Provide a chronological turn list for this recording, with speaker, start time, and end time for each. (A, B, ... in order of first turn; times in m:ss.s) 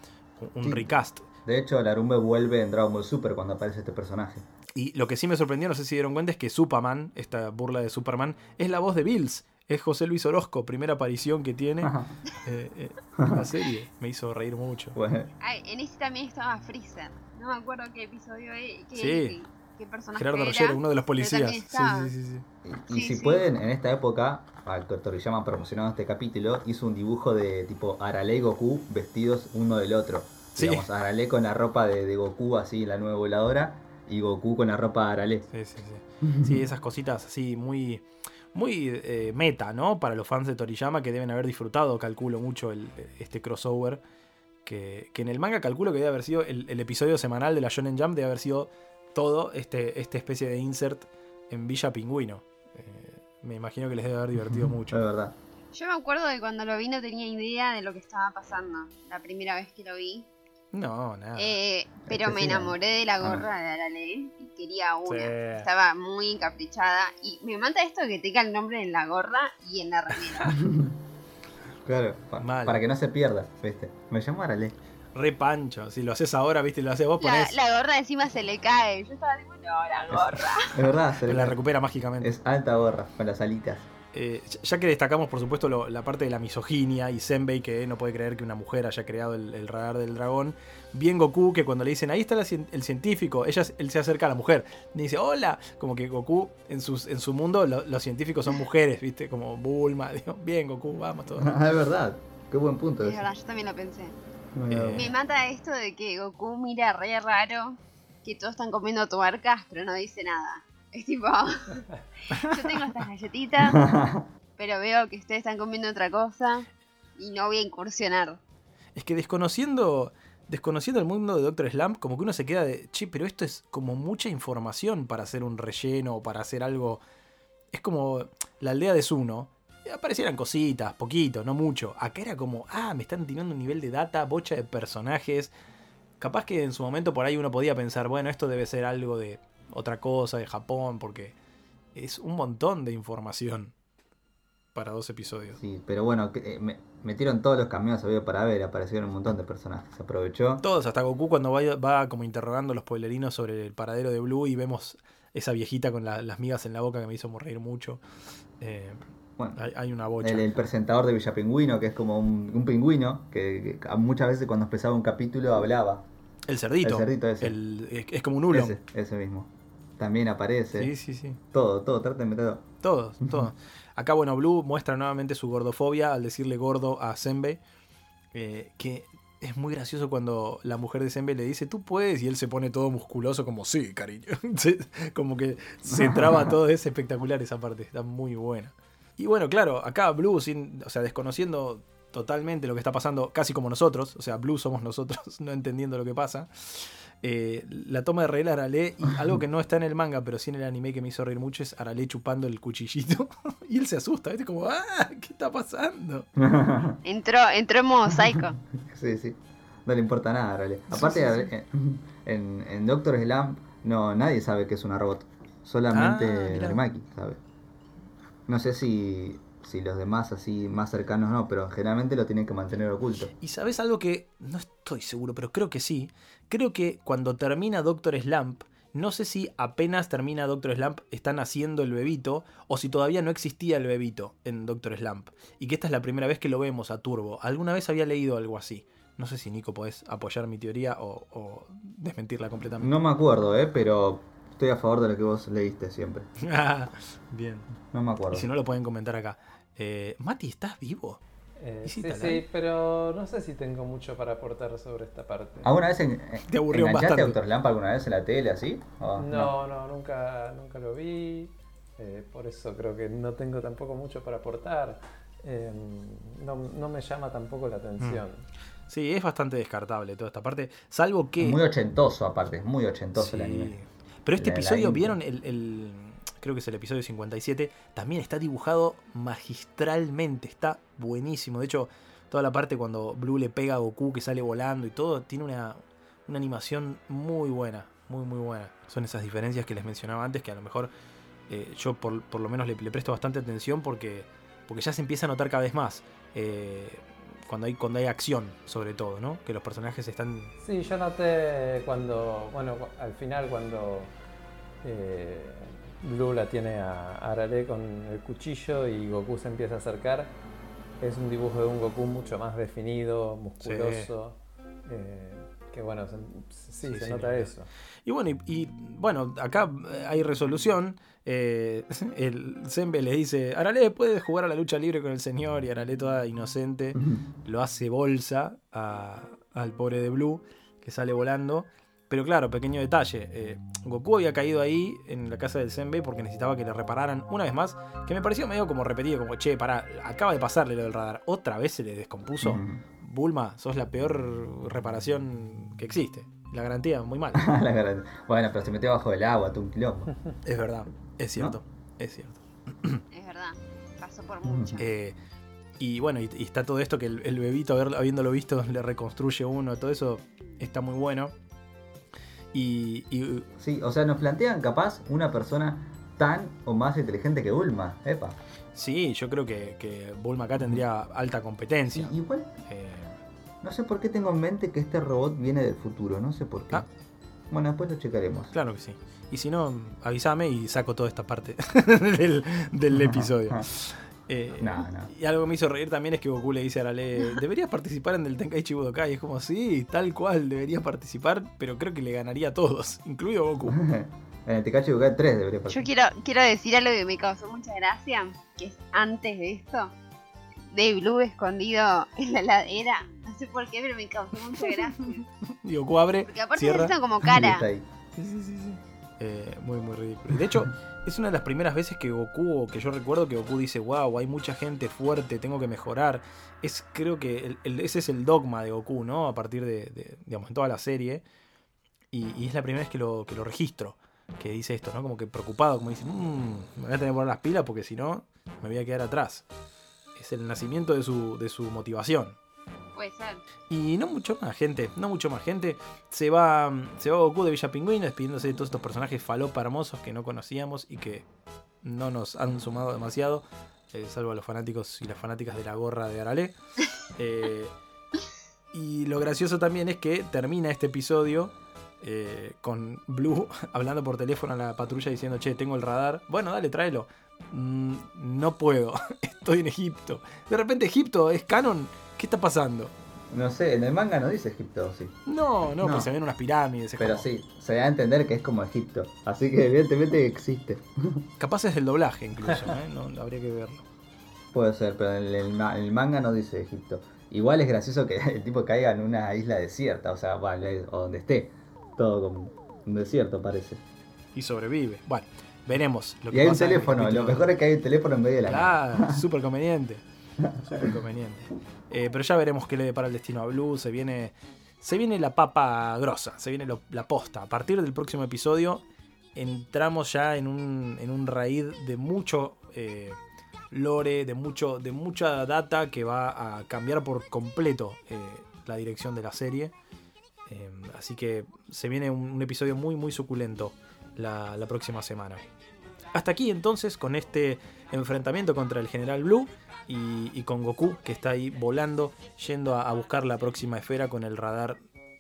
0:00.4-0:01.2 A
0:00.6-0:00.9 B
0:01.4-0:04.4 B
0:04.7-0:15.0 A
0:11.8-0:12.1 B
0:13.2-0:13.5 B
0:14.9-0:15.3 B
0:15.4-0:22.1 C
0:18.9-0:19.4 A
0:20.1-0:22.4 A
0:22.6-0:35.4 B
0:22.9-0:23.4 C
0:30.6-0:30.9 A
0:35.5-0:44.0 A
0:36.3-0:36.6 B
0:44.6-0:55.0 A
0:54.4-0:55.4 B
0:55.7-1:00.3 C
1:00.7-1:01.6 A
1:01.4-1:10.6 C
1:02.1-1:03.4 B
1:05.0-1:05.7 A
1:10.4-1:11.0 B
1:11.8-1:14.8 B
1:12.4-1:12.8 A
1:15.1-1:17.6 A
1:17.2-1:20.8 C
1:20.1-1:21.6 B
1:21.2-1:22.3 A
1:22.2-1:23.9 B
1:24.1-1:41.5 A
1:41.4-1:43.2 B
1:43.0-1:44.2 C
1:44.6-1:45.1 B
1:44.7-1:45.1 A
1:44.9-1:53.8 C
1:53.6-1:54.2 B
1:54.6-1:58.4 C
1:58.9-2:07.0 A
2:07.7-2:15.5 A
2:16.2-2:21.3 A
2:21.9-2:23.7 A
2:24.7-2:25.6 A
2:25.5-2:30.6 B
2:30.6-2:38.0 A
2:38.6-2:39.0 A
2:39.6-2:40.5 A
2:40.2-2:46.0 B
2:46.5-2:48.8 A
2:46.8-2:47.6 B
2:48.5-2:50.9 B
2:50.7-2:51.4 A
2:51.5-2:52.7 B
2:52.8-2:57.6 A
2:58.3-3:26.3 A
3:05.9-3:06.5 B
3:26.4-3:27.0 B
3:27.0-3:28.6 C
3:28.3-3:37.4 B
3:30.9-3:31.5 A
3:35.9-3:36.8 A
3:38.5-3:43.3 B
3:43.4-4:02.9 A
4:02.8-4:06.3 B
4:06.4-4:07.7 A
4:07.9-4:08.5 B
4:08.3-4:11.2 A
4:11.6-4:15.7 D
4:11.8-4:12.4 A
4:15.6-4:19.5 B
4:16.5-4:17.4 A
4:19.2-4:28.4 D
4:28.9-4:31.6 A
4:31.4-4:33.7 B
4:33.2-4:50.9 A
4:34.4-4:35.2 B
4:51.5-5:00.5 A
5:00.6-5:04.1 D
5:04.8-5:10.4 D
5:11.0-5:17.7 D
5:13.6-5:14.1 A
5:16.8-5:17.5 A
5:18.0-5:47.5 A
5:42.4-5:42.8 B
5:47.3-5:50.1 B
5:50.4-5:53.0 A
5:53.1-5:54.9 C
5:54.4-5:54.8 B
5:54.8-5:55.1 A
5:55.8-6:01.3 A
6:02.5-6:03.5 A
6:03.6-6:08.4 B
6:08.7-6:12.1 A
6:11.9-6:12.5 B
6:12.7-6:13.1 A
6:13.6-6:16.9 B
6:17.5-6:18.5 B
6:18.5-6:33.8 A
6:22.9-6:23.6 B
6:24.6-6:25.1 B
6:33.7-6:35.9 B
6:35.7-6:39.9 C
6:40.7-6:45.2 C
6:44.6-6:46.9 A
6:46.2-6:47.7 C
6:47.2-6:47.8 B
6:48.2-7:01.2 A
7:02.1-7:09.4 A
7:10.2-7:12.4 A
7:12.9-7:13.4 C
7:13.7-7:21.2 A
7:21.8-7:26.5 A
7:27.2-7:27.7 A
7:28.7-7:42.9 A
7:43.3-7:45.2 B
7:45.3-7:47.2 A
7:45.8-7:46.1 B
7:47.0-7:51.3 B
7:51.4-7:53.8 A
7:54.5-8:03.8 B
8:04.3-8:07.5 A
8:06.3-8:09.2 B
8:08.5-8:10.0 A
8:10.4-8:10.9 B
8:10.6-8:18.8 A
8:19.3-8:23.2 A
8:23.7-8:29.7 A
8:30.5-8:35.4 A
8:36.1-8:44.8 A